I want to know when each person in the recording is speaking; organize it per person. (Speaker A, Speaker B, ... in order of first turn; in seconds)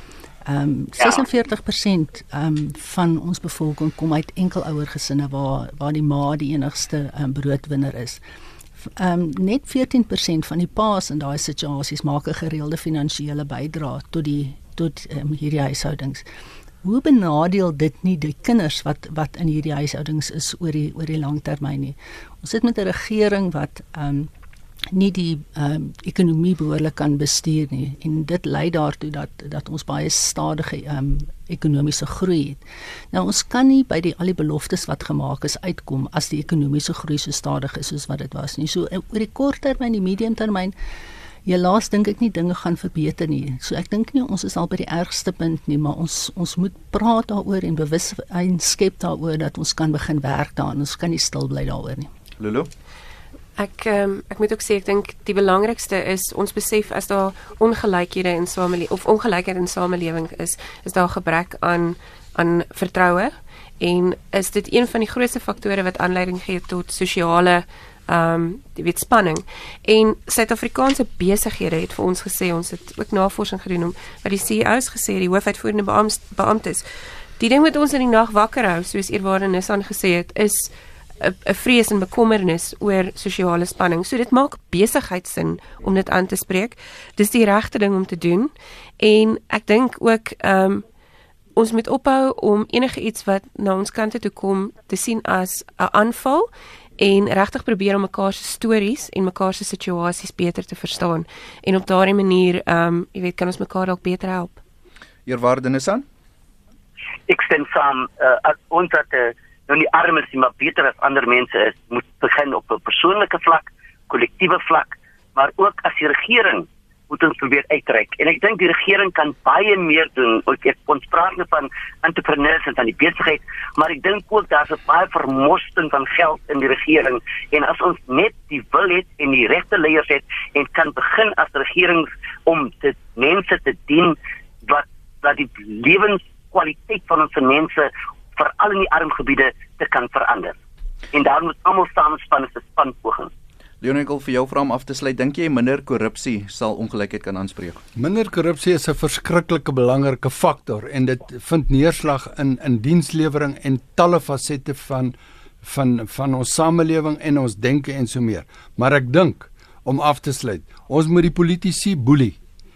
Speaker A: 0.4-8.2, 9.0-16.2, 16.8-24.3, 24.9-40.7, 41.5-52.1
Speaker B: 1.0-1.3, 107.3-140.6, 141.1-143.3
Speaker C: 52.4-52.7, 105.2-106.0, 143.8-147.8
Speaker D: 53.6-76.8, 77.4-90.8, 91.5-104.6
Speaker E: 147.9-162.4